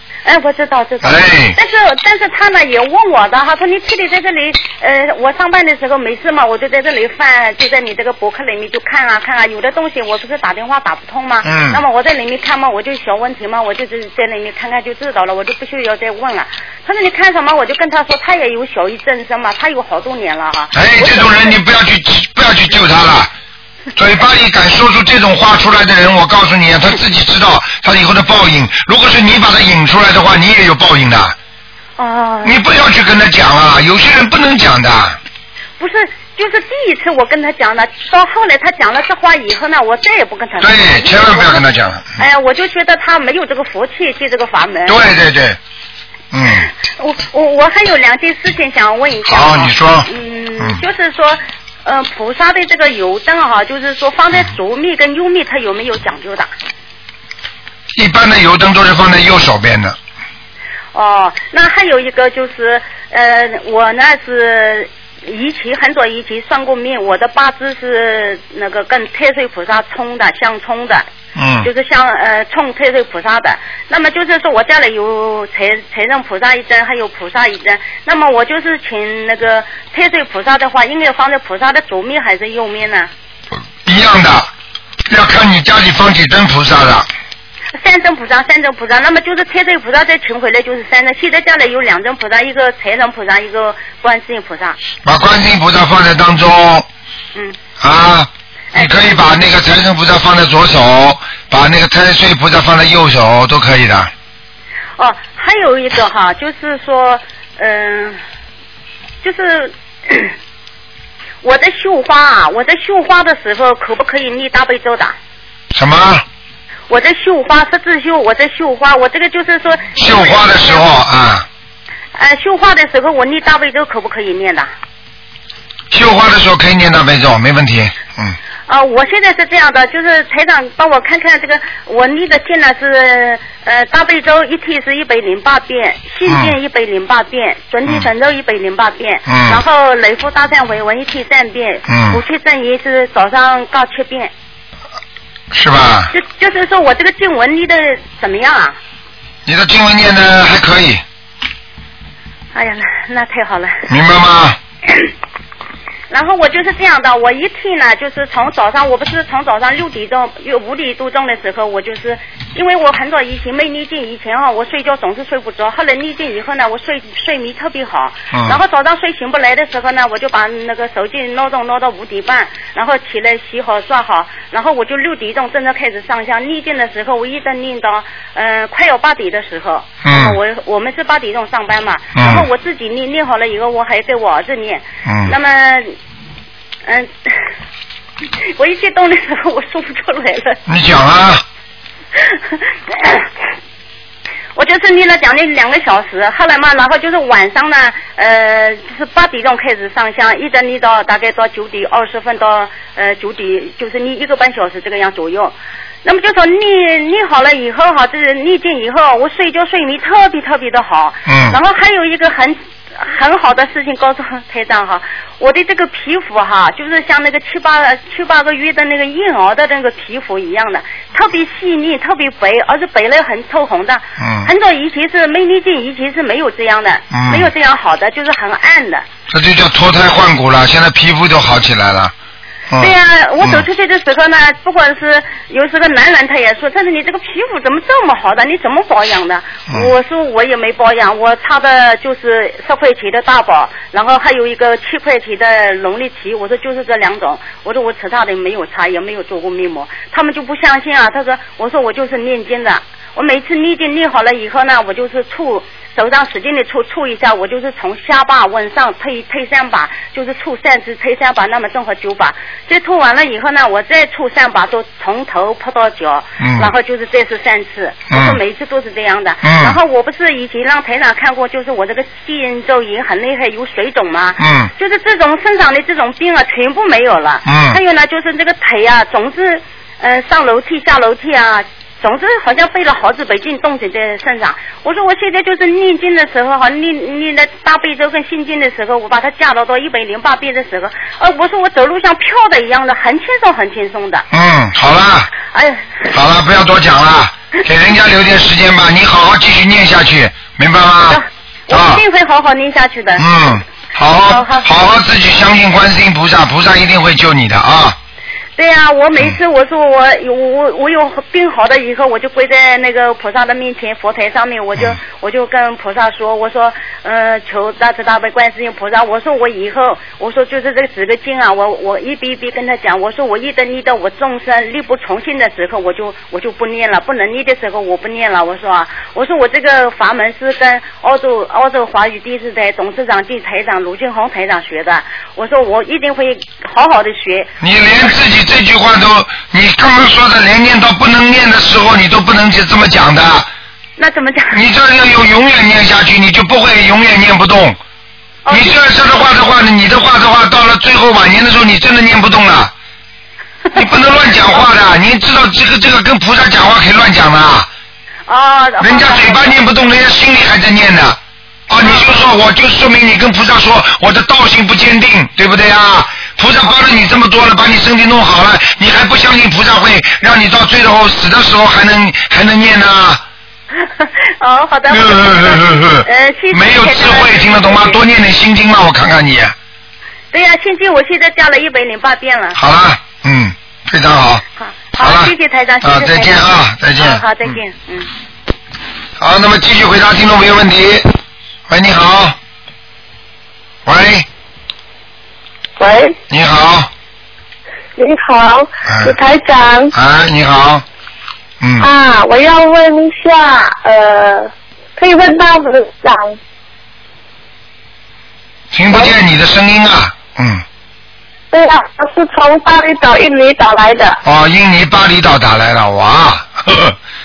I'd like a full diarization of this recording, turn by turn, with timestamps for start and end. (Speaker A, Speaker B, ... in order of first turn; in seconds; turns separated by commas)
Speaker A: 0.2-21.6, Speaker B: 1.0-1.6, Speaker B: 11.4-11.8, Speaker B: 20.7-23.3, Speaker B: 23.9-31.4, Speaker A: 32.0-32.6, Speaker B: 32.4-35.2, Speaker A: 35.8-41.6, Speaker B: 40.6-42.1, Speaker A: 42.2-45.0, Speaker B: 44.9-45.6, Speaker B: 46.3-46.7, Speaker A: 47.0-56.5, Speaker B: 49.2-50.1, Speaker B: 57.9-60.0, Speaker A: 60.9-71.0, Speaker B: 71.3-71.7, Speaker A: 71.6-83.1, Speaker B: 83.8-84.5, Speaker B: 85.1-87.1, Speaker A: 87.8-94.8, Speaker B: 95.0-96.9, Speaker B: 97.8-104.1, Speaker A: 98.7-99.1, Speaker A: 105.0-108.2, Speaker A: 109.2-110.3, Speaker A: 111.4-115.1, Speaker B: 115.7-116.2, Speaker A: 116.9-120.9, Speaker B: 120.0-121.5, Speaker A: 122.1-124.7, Speaker B: 125.9-128.4, Speaker A: 128.7-144.3, Speaker B: 136.3-136.5, Speaker B: 139.3-139.6, Speaker B: 141.9-142.2, Speaker B: 145.5-146.1, Speaker A: 146.1-148.8, Speaker B: 149.4-151.0, Speaker A: 152.5-153.8, Speaker B: 153.9-154.6, Speaker A: 156.1-185.9, Speaker B: 168.3-168.6, Speaker B: 180.0-180.4, Speaker B: 182.1-182.4, Speaker B: 185.0-185.3, Speaker A: 186.8-187.5, Speaker A: 188.4-190.6, Speaker B: 190.7-191.4, Speaker A: 192.1-193.3, Speaker A: 194.5-229.0, Speaker B: 211.3-211.6, Speaker B: 224.2-224.5, Speaker B: 227.1-227.5, Speaker B: 229.3-232.1, Speaker B: 232.7-233.7, Speaker A: 232.8-294.2, Speaker B: 266.4-266.7, Speaker B: 268.1-268.4, Speaker B: 269.4-269.8, Speaker B: 274.4-274.7, Speaker B: 277.4-277.8, Speaker B: 294.3-295.3, Speaker A: 295.5-296.1, Speaker B: 296.1-302.0, Speaker A: 301.1-303.5, Speaker B: 303.2-308.0, Speaker A: 304.3-304.7, Speaker A: 308.6-337.5, Speaker B: 337.6-343.5, Speaker A: 344.0-344.6, Speaker B: 344.5-347.8, Speaker A: 348.4-348.7, Speaker B: 348.5-352.7, Speaker B: 353.7-357.7, Speaker A: 358.3-359.6, Speaker B: 358.8-373.2, Speaker A: 361.8-362.3, Speaker A: 373.8-378.0, Speaker B: 374.9-379.5, Speaker A: 380.3-382.6, Speaker B: 382.6-384.4, Speaker A: 384.6-388.1, Speaker B: 385.0-387.6, Speaker B: 389.2-391.1, Speaker B: 391.7-392.4, Speaker B: 393.9-394.3, Speaker C: 395.8-396.2, Speaker B: 396.3-396.9, Speaker C: 398.0-399.9, Speaker B: 398.9-399.1, Speaker B: 399.9-400.8, Speaker B: 401.6-401.9, Speaker C: 401.8-406.4, Speaker B: 408.7-410.6, Speaker C: 411.5-414.2, Speaker B: 414.2-417.0